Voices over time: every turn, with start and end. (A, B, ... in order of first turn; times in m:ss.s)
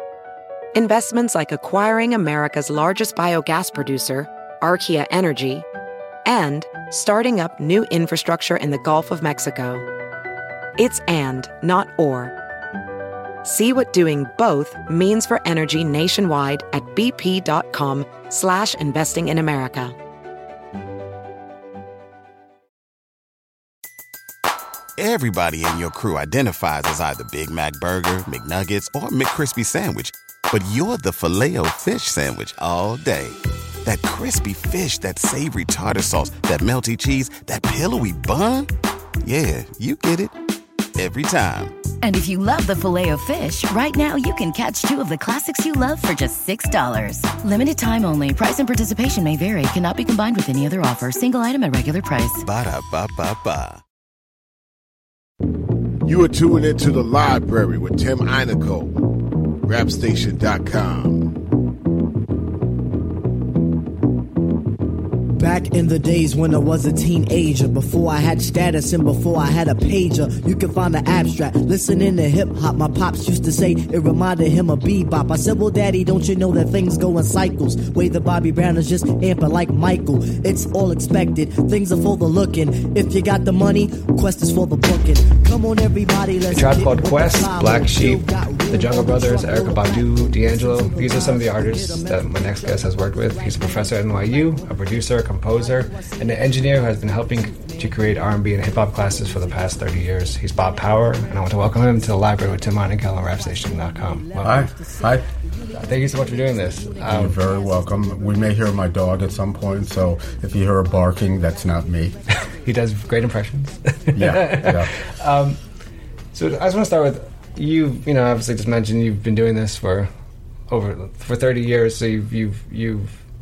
0:00.7-0:05.7 A
0:06.2-0:09.9 A
0:10.8-0:12.3 A
0:13.4-0:20.0 A
0:25.0-0:38.7 B
0:39.2-0:40.4 B
0:41.0-0:41.7 B
0:42.0-0:52.4 C
0:52.4-0:53.8 B
0:56.0-0:59.0 D
0:59.6-1:01.3 D
1:05.3-1:35.0 E
1:26.5-1:44.7 F
1:35.5-1:38.0 E
1:39.1-1:39.5 E
1:43.4-1:45.1 E
1:44.4-1:45.2 G
1:45.8-1:47.4 F
1:46.0-1:47.0 E
1:47.1-1:52.2 G
1:52.5-1:55.6 F
1:54.1-1:54.9 G
1:56.3-2:00.1 F
2:00.7-2:03.1 F